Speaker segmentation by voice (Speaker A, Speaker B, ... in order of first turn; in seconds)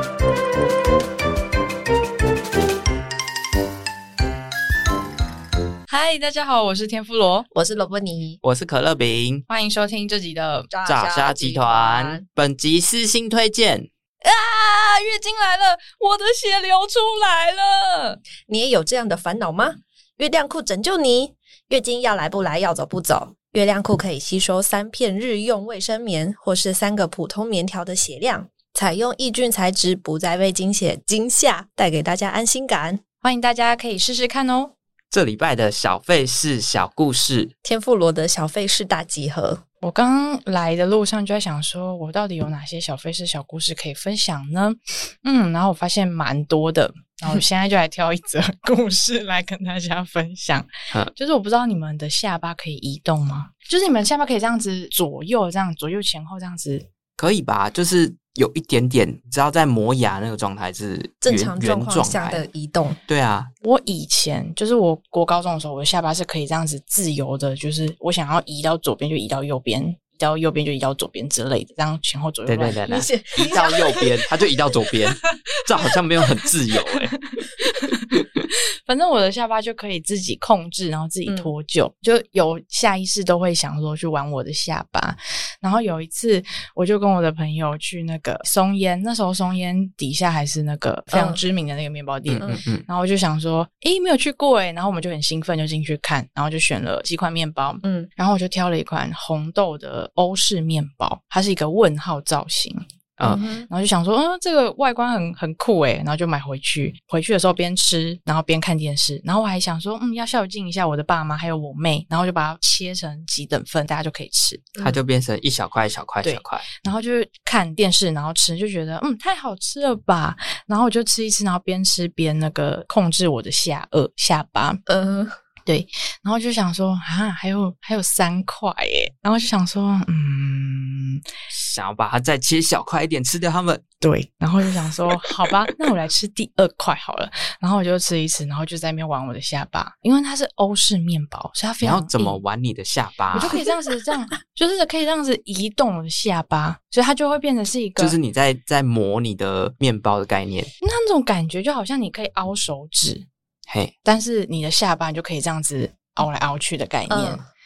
Speaker A: 5.9-7.5, 9.5-10.7, 14.2-18.2, 33.2-34.7, 39.8-56.9, 63.6-72.8, 77.6-78.1, 78.9-114.7, 116.2-124.8, 125.7-131.2, 134.0-142.4, 143.3-148.2, 150.8-153.3, 154.1-157.4
Speaker B: 7.5-8.4, 10.7-12.2, 18.5-33.0, 37.6-39.6, 61.2-63.0, 72.9-74.2, 81.3-81.5, 91.1-91.4, 97.8-98.1, 103.2-103.7, 124.9-125.4, 157.1-157.4
Speaker C: 8.4-9.4, 10.8-13.9, 35.1-37.5, 57.2-62.5, 63.1-63.5, 72.5-77.2, 78.1-78.4, 92.3-92.9, 114.8-116.7, 131.5-133.8, 141.8-143.6, 148.0-150.7, 153.7-153.9